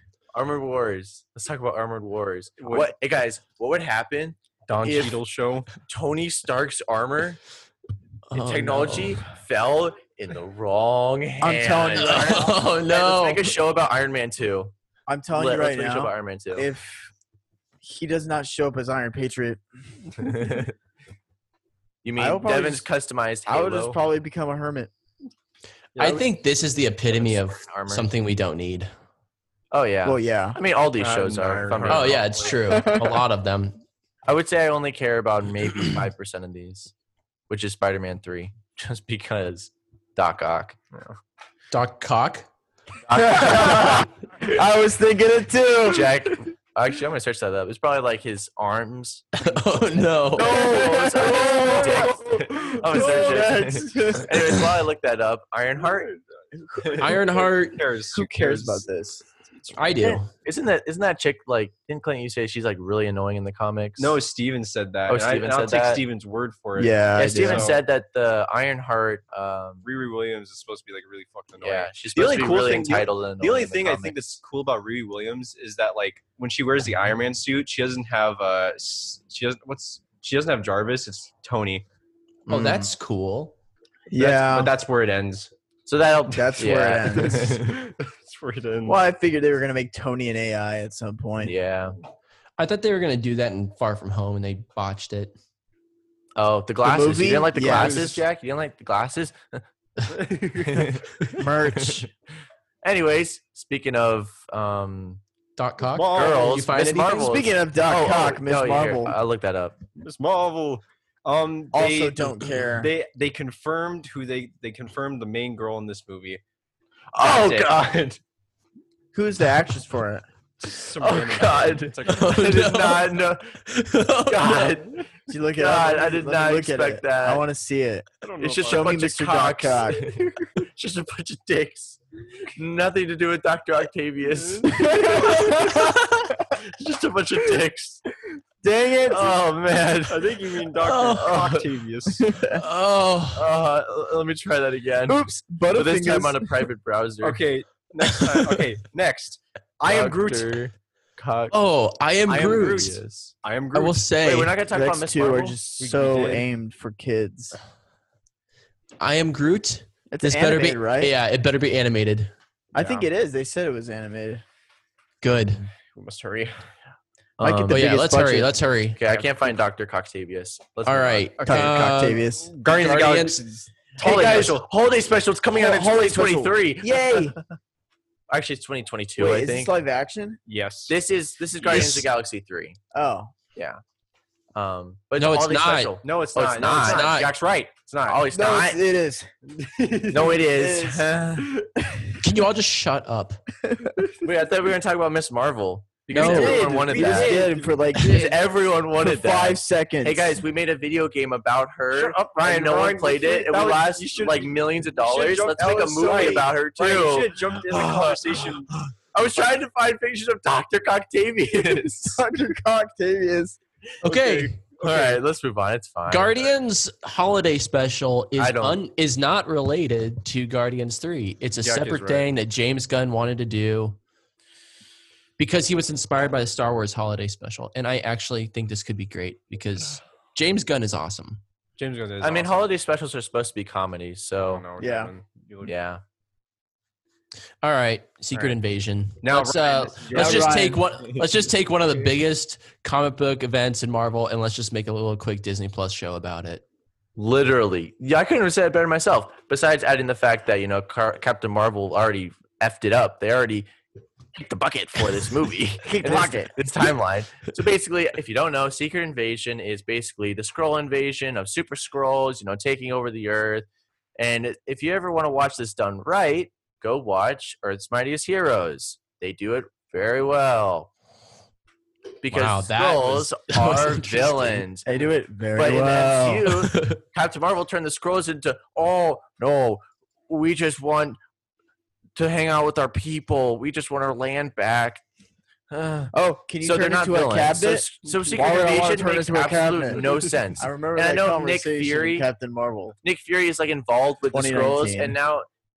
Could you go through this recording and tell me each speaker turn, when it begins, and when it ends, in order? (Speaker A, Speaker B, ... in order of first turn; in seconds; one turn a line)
Speaker A: 0.3-5.2
Speaker B: 2.6-2.9
Speaker B: 4.7-5.7
Speaker A: 5.8-7.4
Speaker C: 8.3-9.2
Speaker A: 8.3-14.7
Speaker D: 11.4-12.6
Speaker C: 12.0-13.4
Speaker D: 15.1-17.1
Speaker A: 15.3-16.7
Speaker D: 17.8-19.6
Speaker A: 22.0-24.0
Speaker D: 22.1-22.9
Speaker D: 23.4-24.9
Speaker C: 26.0-28.9
Speaker A: 27.1-28.1
Speaker A: 29.7-32.5
Speaker D: 30.0-30.6
Speaker B: 31.0-32.3
Speaker C: 31.9-33.8
Speaker D: 32.6-33.2
Speaker A: 34.2-36.9
Speaker A: 37.5-40.8
Speaker C: 41.7-42.5
Speaker A: 43.1-44.1
Speaker D: 43.1-46.4
Speaker A: 45.8-49.5
Speaker C: 49.4-50.6
Speaker A: 50.3-56.1
Speaker D: 50.4-54.6
Speaker B: 51.7-53.8
Speaker D: 56.5-57.1
Speaker B: 56.8-58.8
Speaker C: 57.0-57.8
Speaker D: 58.1-59.2
Speaker B: 59.4-59.8
Speaker C: 59.7-60.3
Speaker A: 60.4-64.2
Speaker B: 64.0-67.8
Speaker A: 65.1-66.0
Speaker D: 66.8-67.7
Speaker A: 67.2-69.8
Speaker B: 69.8-81.8
Speaker A: 71.6-74.4
Speaker C: 82.5-83.5
Speaker D: 84.1-84.7
Speaker B: 84.2-85.5
Speaker A: 85.9-87.5
Speaker D: 86.3-87.6
Speaker B: 87.2-89.0
Speaker D: 88.8-91.5
Speaker A: 91.4-91.9
Speaker C: 92.6-95.3
Speaker A: 96.3-99.6
Speaker D: 96.8-98.1
Speaker B: 97.6-98.2
Speaker B: 100.1-101.3
Speaker D: 101.4-102.1
Speaker A: 102.8-105.2
Speaker C: 105.6-107.2
Speaker B: 105.9-106.7
Speaker A: 106.1-109.8
Speaker D: 107.0-109.2
Speaker B: 110.0-116.4
Speaker D: 111.7-112.9
Speaker A: 117.1-117.9
Speaker B: 117.2-118.2
Speaker D: 119.1-120.2
Speaker B: 120.6-122.7
Speaker A: 121.0-123.5
Speaker C: 122.1-123.1
Speaker C: 123.7-124.6
Speaker A: 124.2-124.9
Speaker D: 125.3-128.1
Speaker A: 125.6-127.4
Speaker B: 128.2-129.0
Speaker A: 128.4-130.2
Speaker D: 128.7-130.1
Speaker A: 130.8-132.0
Speaker A: 132.5-138.0
Speaker B: 134.3-135.5
Speaker D: 134.7-135.7
Speaker D: 138.6-139.4
Speaker A: 139.1-141.7
Speaker B: 140.1-142.3
Speaker C: 140.9-141.2
Speaker D: 142.1-142.6
Speaker C: 142.5-143.5
Speaker A: 143.3-147.4
Speaker D: 145.1-146.7
Speaker B: 147.2-150.6
Speaker A: 149.8-151.5
Speaker C: 151.5-153.0
Speaker B: 152.3-154.1
Speaker A: 152.4-153.3
Speaker C: 153.7-154.5
Speaker A: 154.2-155.6
Speaker D: 154.7-157.6
Speaker B: 155.8-156.4
Speaker C: 159.0-162.3
Speaker D: 160.1-161.1
Speaker D: 162.7-164.4
Speaker B: 162.8-163.1
Speaker C: 165.2-165.6
Speaker B: 165.5-166.6
Speaker A: 167.4-167.8
Speaker D: 167.4-168.5
Speaker C: 167.7-169.0
Speaker A: 169.0-171.3
Speaker C: 170.8-173.4
Speaker B: 171.4-171.8
Speaker D: 171.4-172.5
Speaker B: 172.4-174.7
Speaker A: 174.0-177.4
Speaker D: 174.1-174.4
Speaker D: 175.5-177.4
Speaker A: 178.3-179.7
Speaker D: 179.2-180.4
Speaker B: 180.5-180.9
Speaker A: 180.9-182.8
Speaker C: 181.7-182.1
Speaker D: 182.9-183.3
Speaker A: 184.5-187.3
Speaker C: 185.2-186.0
Speaker B: 186.0-188.2
Speaker C: 186.6-187.3
Speaker A: 188.1-188.8
Speaker D: 188.3-189.3
Speaker B: 189.6-190.4
Speaker A: 190.1-191.5
Speaker D: 190.5-191.1
Speaker C: 192.2-193.4
Speaker D: 193.6-193.9
Speaker A: 194.2-212.2
Speaker C: 196.1-196.6
Speaker D: 196.1-198.3
Speaker B: 196.2-197.8
Speaker D: 199.0-200.4
Speaker B: 201.9-208.7
Speaker D: 205.8-206.5
Speaker D: 212.0-213.6
Speaker C: 214.0-214.5
Speaker A: 214.1-216.5
Speaker B: 214.8-215.2
Speaker C: 216.1-224.0
Speaker A: 218.4-218.8
Speaker A: 221.6-222.2
Speaker C: 225.4-231.4
Speaker B: 231.8-232.7
Speaker A: 232.2-234.6
Speaker B: 234.4-235.7
Speaker D: 234.8-235.1
Speaker A: 235.6-236.0
Speaker C: 237.6-246.6
Speaker B: 239.2-241.4
Speaker D: 240.1-240.8
Speaker A: 247.2-253.7
Speaker A: 254.3-263.6
Speaker D: 255.8-256.5
Speaker A: 264.2-270.9
Speaker A: 272.2-274.9
Speaker C: 272.3-274.6
Speaker D: 274.8-276.5
Speaker A: 275.5-281.2
Speaker C: 276.7-277.0
Speaker A: 282.1-285.0
Speaker A: 285.7-292.3
Speaker D: 286.1-292.9
Speaker B: 288.0-288.6
Speaker A: 293.0-295.4
Speaker D: 294.3-295.2